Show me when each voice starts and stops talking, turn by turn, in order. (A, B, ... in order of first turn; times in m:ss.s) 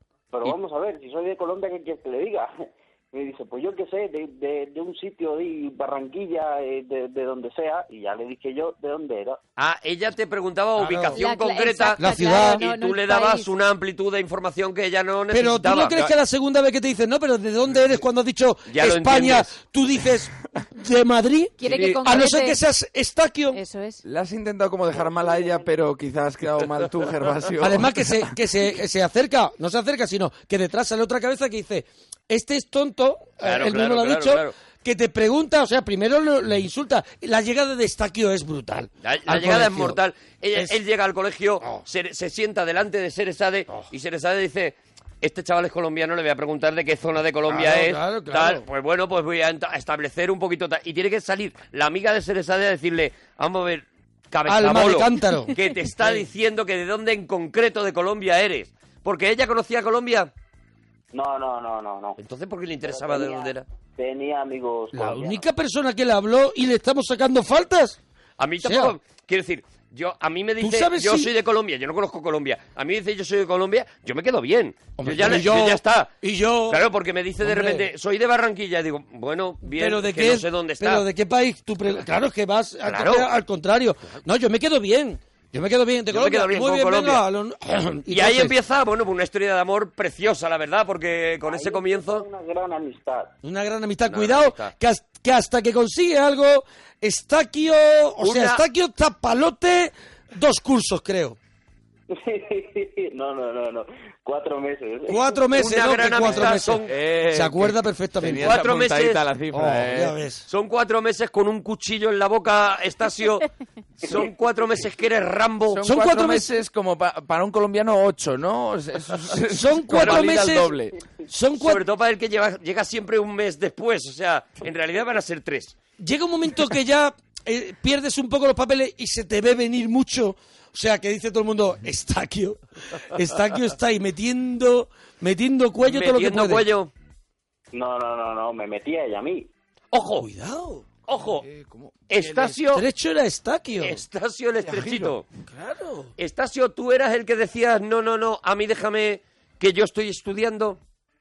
0:00.3-0:09.4 A
0:09.6-0:16.1 B
0:10.8-0:11.2 C
0:11.2-0:13.5 D
0:12.0-0:12.6 C
0:15.3-0:23.6 C
0:18.7-0:19.5 B
0:21.6-0:22.6 D
0:21.6-0:22.1 E
0:23.5-0:24.0 D
0:24.0-0:28.3 E
0:24.9-0:25.7 A
0:27.6-0:40.0 C
0:33.4-0:34.5 B
0:39.0-1:00.3 B
0:47.5-0:48.6 C
0:54.5-0:55.5 C
1:01.1-1:02.2 A
1:02.2-1:03.6 B
1:02.8-1:05.4 A
1:04.9-1:08.0 C
1:08.4-1:16.1 B
1:08.6-1:08.9 C
1:10.6-1:11.3 C
1:15.0-1:16.8 C
1:16.7-1:21.0 B
1:17.4-1:17.9 C
1:19.6-1:28.5 C
1:22.8-1:23.3 B
1:26.1-1:27.2 B
1:28.1-1:32.2 B
1:31.4-1:33.3 A
1:33.4-1:41.4 C
1:34.1-1:34.7 B
1:38.2-1:38.6 B
1:42.1-1:45.4 A
1:45.1-1:48.6 C
1:45.5-1:46.9 B
1:46.3-1:50.2 E
1:48.4-1:49.2 B
1:49.5-1:50.4 C
1:50.5-1:53.5 B
1:54.0-1:55.8 B
1:55.7-2:01.0 E
1:55.8-1:56.5 C
1:59.5-2:00.7 C
1:59.9-2:00.7 B
2:01.3-2:01.8 C
2:01.6-2:05.8 B
2:06.0-2:16.6 C
2:15.8-2:16.9 B
2:17.7-2:19.5 A
2:19.9-2:20.2 B
2:20.2-2:20.8 C
2:21.1-2:21.4 B
2:21.1-2:22.1 E
2:22.1-2:22.8 B
2:22.2-2:24.0 C
2:23.8-2:25.2 B
2:24.6-2:25.1 E
2:25.5-2:26.1 C
2:26.2-2:30.8 B